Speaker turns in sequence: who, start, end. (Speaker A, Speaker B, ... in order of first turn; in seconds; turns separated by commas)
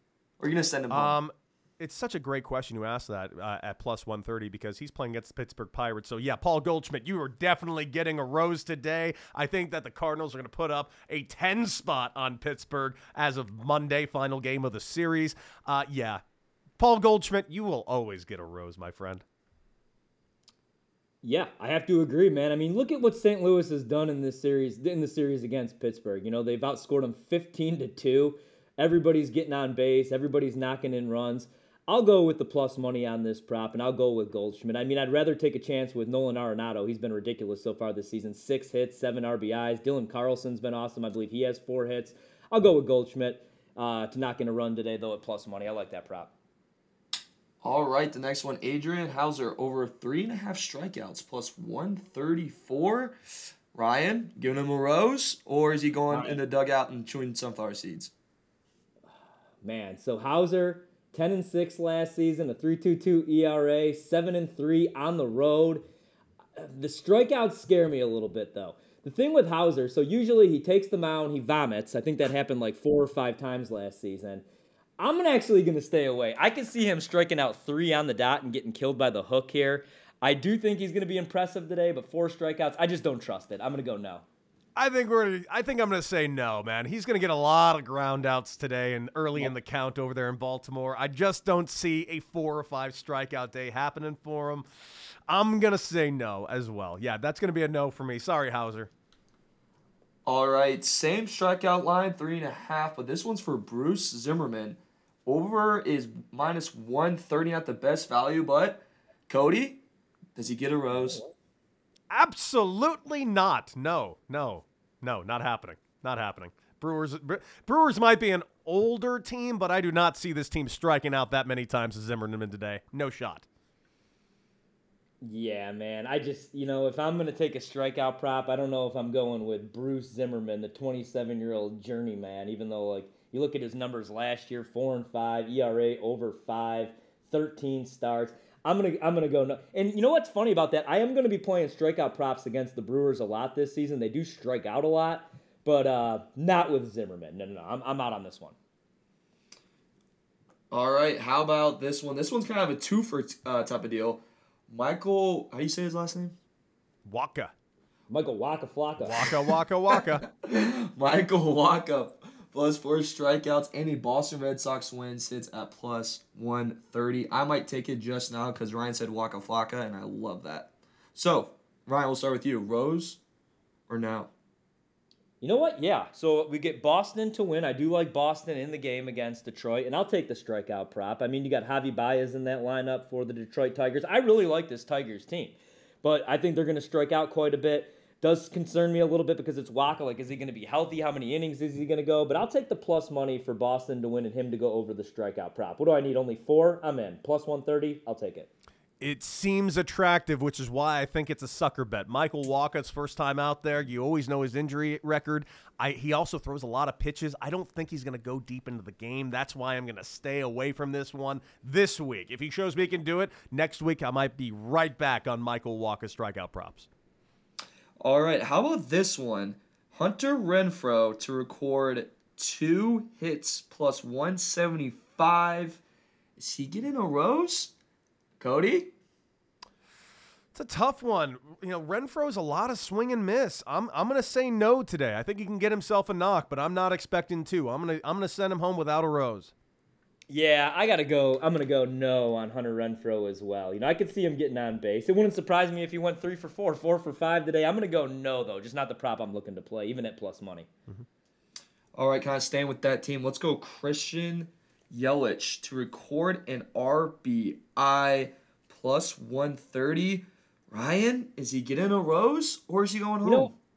Speaker A: 0.4-1.2, Speaker B: 0.9-16.2, Speaker B: 16.8-19.2, Speaker C: 21.2-46.3, Speaker A: 47.6-53.1, Speaker A: 53.7-58.1, Speaker C: 56.1-56.4, Speaker C: 59.6-65.8, Speaker C: 66.6-74.5, Speaker C: 75.0-84.2, Speaker B: 84.8-94.7, Speaker B: 95.3-98.9, Speaker A: 100.3-109.8, Speaker A: 110.4-111.3, Speaker B: 112.1-123.5, Speaker C: 125.2-148.6, Speaker A: 150.7-156.4, Speaker B: 157.1-157.5, Speaker C: 158.1-159.3, Speaker B: 159.0-160.2, Speaker A: 159.9-173.2, Speaker A: 173.9-174.3, Speaker C: 175.4-198.5, Speaker B: 199.0-216.9, Speaker A: 218.0-225.8, Speaker A: 226.4-227.7, Speaker A: 228.4-228.9, Speaker B: 230.5-239.5, Speaker C: 240.3-250.7, Speaker A: 251.9-263.5, Speaker C: 263.2-263.5